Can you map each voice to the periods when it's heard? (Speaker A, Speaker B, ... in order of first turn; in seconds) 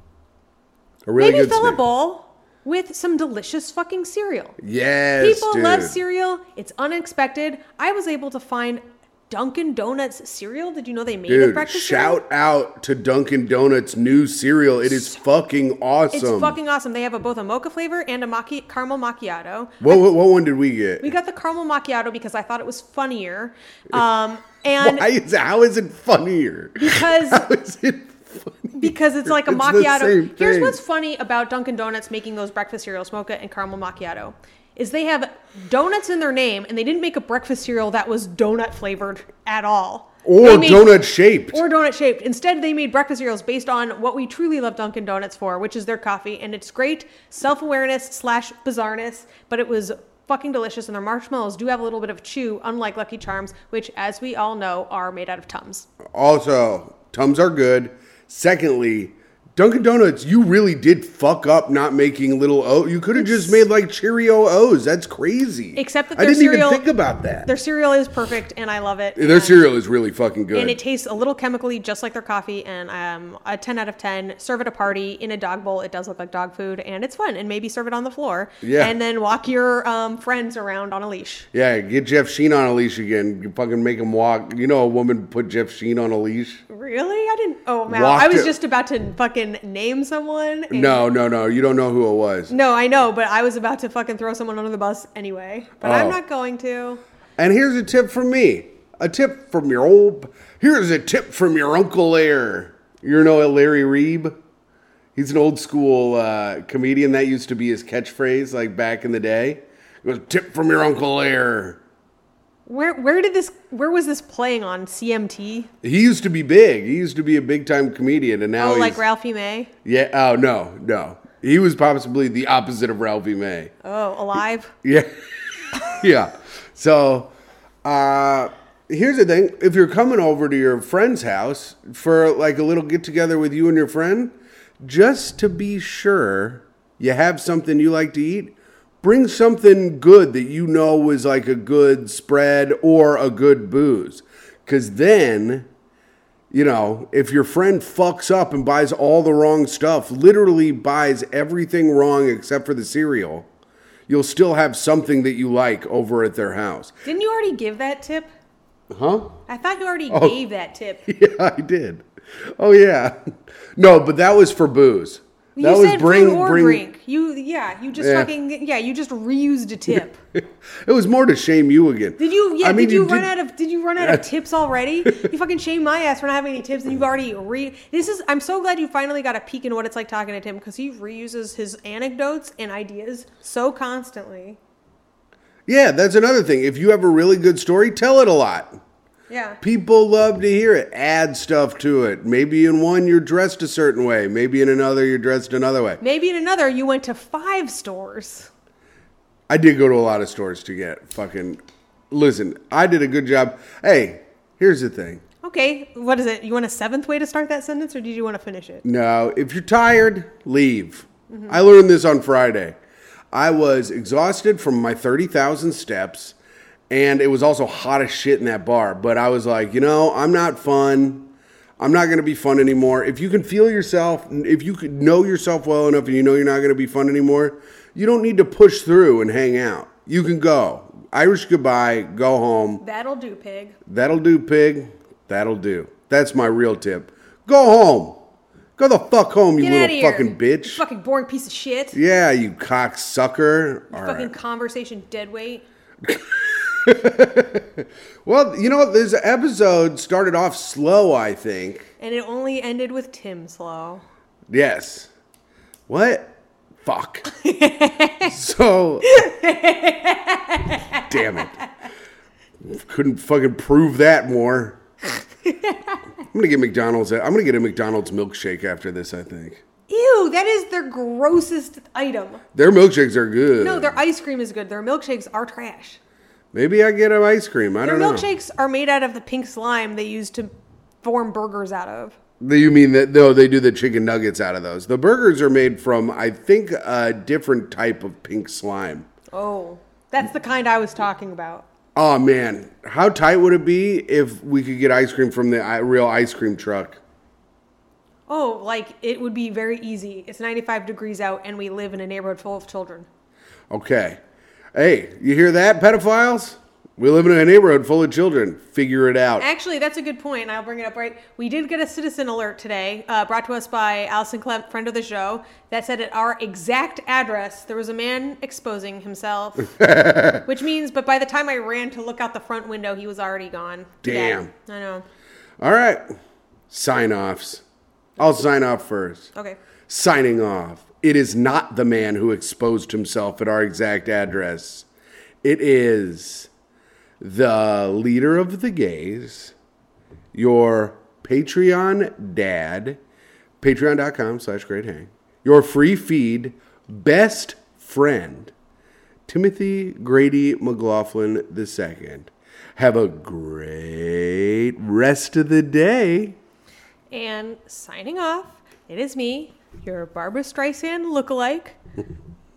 Speaker A: 1.1-1.8, 4.6-6.0, 11.3-16.6, 19.8-21.1, 24.8-30.8, 40.2-41.6, 56.1-67.5, 69.2-70.8, 78.6-78.9, 81.5-86.6, 87.9-88.5, 90.7-92.5, 95.8-96.2, 97.4-104.3, 105.2-111.8, 115.8-119.0, 119.8-123.7, 124.8-125.1, 125.7-127.3, 127.8-145.7, 146.5-153.5, 154.1-156.9, 158.9-159.4, 160.1-160.4, 161.1-163.1, 163.8-166.8, 167.9-168.3, 170.3-173.3, 174.0-174.2, 175.0-175.3, 185.7-188.8, 189.6-196.0, 199.5-205.2, 208.8-212.8, 213.3-216.3, 216.9-232.8, 233.9-238.2, 238.8-240.8, 241.9-244.3, 246.0-251.9, 254.5-255.1, 255.9-257.3, 258.2-259.1, 261.1-261.6, 262.6-264.8, 266.3-269.6, 272.5-274.0, 276.5-278.2, 282.4-289.1, 291.9-297.0, 303.7-304.2, 304.7-309.4, 319.7-320.4, 324.0-324.5, 325.6-326.0, 326.7-327.6, 328.2-329.3, 329.9-334.9, 335.4-336.5, 337.2-339.5, 340.3-343.0, 343.6-348.5, 349.3-356.4
Speaker B: 1.2-4.6, 5.2-12.2, 14.9-15.2, 16.1-20.0, 21.0-25.1, 26.8-27.4, 28.7-55.9, 63.1-63.6, 65.8-66.8, 67.4-69.7, 70.5-81.5, 86.7-91.0, 92.5-97.0, 112.7-115.7, 118.6-119.7, 123.8-124.7, 157.0-158.3, 159.5-161.0, 165.6-170.2, 172.2-184.6, 189.3-189.6, 196.0-198.5, 205.4-208.8, 211.3-211.6, 232.8-233.8, 239.6-242.0, 243.9-245.7, 252.0-254.0, 257.3-258.3, 259.0-261.6, 265.4-266.0, 269.9-272.4, 273.6-276.0, 277.8-280.5, 281.0-282.2, 289.3-291.6, 298.3-303.1, 309.4-319.9, 320.4-325.0, 357.1-361.8